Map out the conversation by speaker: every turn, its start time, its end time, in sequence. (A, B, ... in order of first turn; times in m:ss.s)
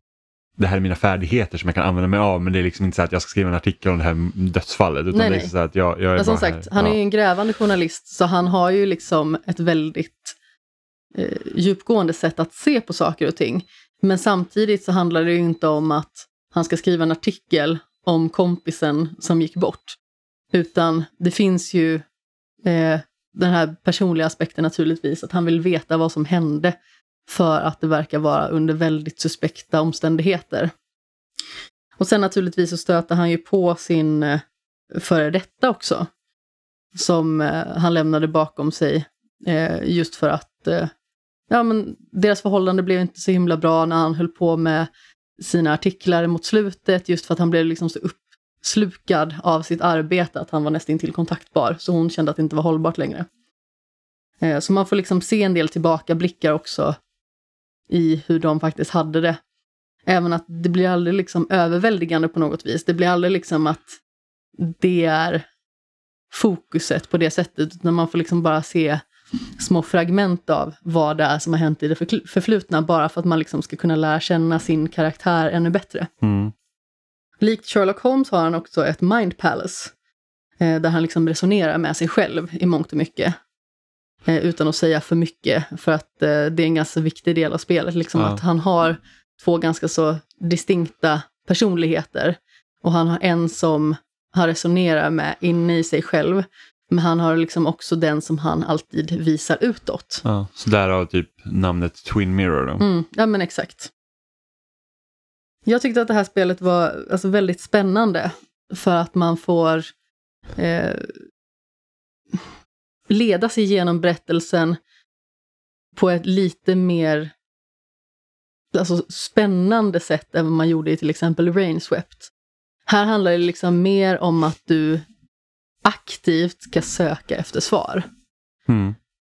0:00.6-0:07.0 A
0:05.1-0:05.5 B
0:06.2-0:10.4 B
0:11.2-0:20.0 B
0:20.5-0:22.0 B
0:22.6-0:26.8 B
0:27.3-0:30.7 B
0:32.0-0:34.4 B
0:34.9-0:36.1 B
0:36.9-0:40.9 B
0:41.5-0:44.9 B
0:45.4-0:53.3 B
0:54.4-0:57.0 B
0:57.9-0:59.4 B
1:00.1-1:04.0 B
1:04.6-1:05.5 B
1:06.3-1:09.0 B
1:09.6-1:16.1 B
1:16.2-1:16.5 A
1:17.4-1:19.9 B
1:20.6-1:23.4 B
1:24.3-1:40.2 B
1:28.2-1:28.4 A
1:40.2-1:42.8 A
1:42.8-1:43.9 B
1:45.6-1:49.9 B
1:50.6-1:51.2 B
1:53.1-1:54.8 B
1:56.0-1:57.3 B
1:58.7-2:02.3 B
2:02.9-2:05.0 B
2:05.8-2:08.1 B
2:08.7-2:09.0 A